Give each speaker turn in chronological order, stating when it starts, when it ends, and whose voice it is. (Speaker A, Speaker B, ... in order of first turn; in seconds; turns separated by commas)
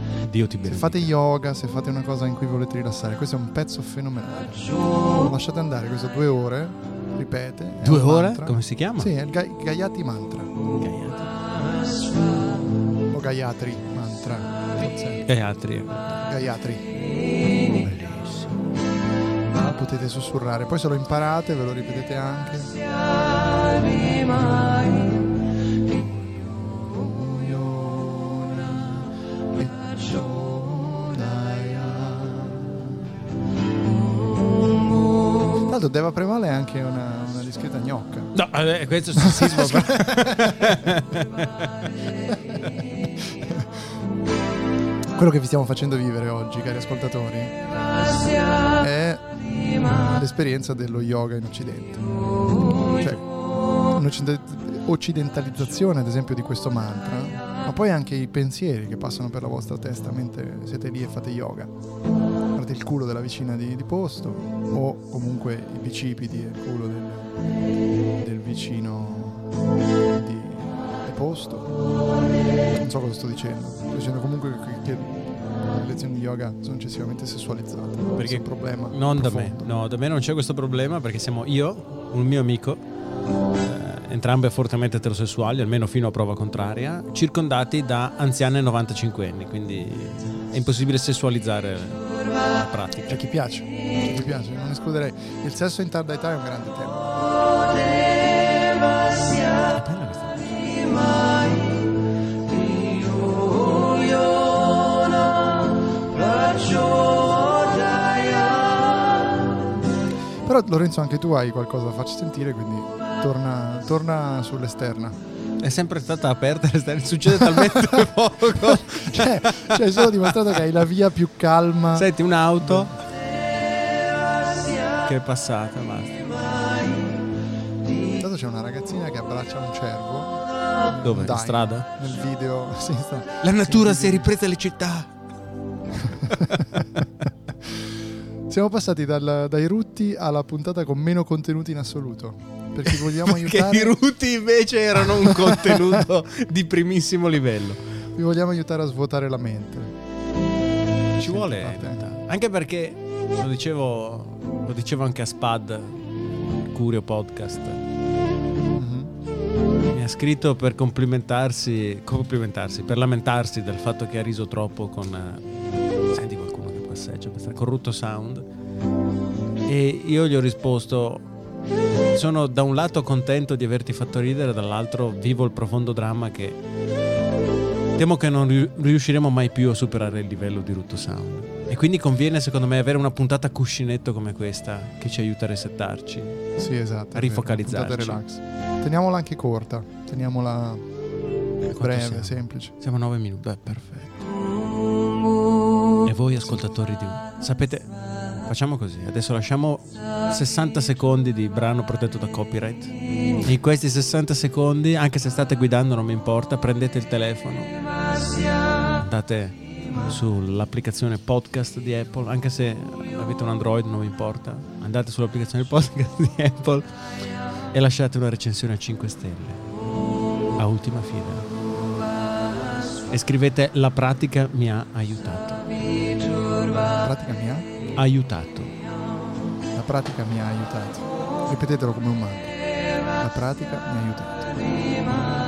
Speaker A: 0.2-1.1, Speaker B: 0.6-10.6, Speaker A: 7.8-9.1, Speaker A: 10.8-11.3, Speaker B: 13.1-15.2, Speaker A: 15.3-16.3, Speaker B: 16.2-16.9, Speaker A: 17.8-18.5, Speaker B: 19.5-22.9, Speaker B: 23.7-25.2, Speaker B: 25.9-33.0, Speaker B: 35.6-38.3, Speaker A: 38.3-41.9, Speaker B: 39.1-40.8, Speaker B: 42.3-42.6, Speaker B: 43.2-43.6, Speaker B: 45.1-47.6, Speaker B: 48.8-61.7, Speaker B: 62.5-67.3, Speaker B: 68.2-69.5, Speaker B: 70.1-71.7, Speaker B: 72.8-79.7, Speaker A: 78.2-82.8, Speaker A: 83.6-93.2, Speaker B: 93.1-97.3, Speaker A: 99.7-100.7, Speaker B: 110.4-115.2, Speaker A: 115.6-120.3, Speaker B: 117.3-123.0, Speaker A: 122.0-122.9, Speaker A: 125.0-126.3, Speaker B: 128.2-134.3, Speaker A: 131.0-131.9, Speaker A: 133.4-135.1, Speaker B: 136.1-136.3, Speaker A: 136.3-136.8, Speaker B: 138.5-144.0, Speaker A: 142.8-148.0, Speaker B: 145.1-145.9, Speaker B: 148.2-149.9, Speaker B: 151.2-152.1, Speaker A: 151.2-156.0, Speaker A: 156.6-157.8, Speaker B: 158.7-159.1, Speaker A: 159.9-165.5, Speaker A: 166.1-168.4, Speaker A: 169.7-171.2, Speaker A: 172.1-176.6, Speaker A: 177.9-186.5, Speaker B: 186.6-190.8, Speaker A: 187.1-188.2, Speaker A: 191.7-194.2, Speaker B: 191.8-192.7, Speaker A: 196.1-197.9, Speaker A: 198.4-207.8, Speaker A: 208.9-216.9, Speaker A: 217.7-219.6, Speaker A: 220.6-221.5, Speaker A: 223.1-225.6, Speaker B: 227.0-227.7, Speaker A: 227.9-228.8, Speaker B: 229.7-232.6, Speaker B: 233.1-234.9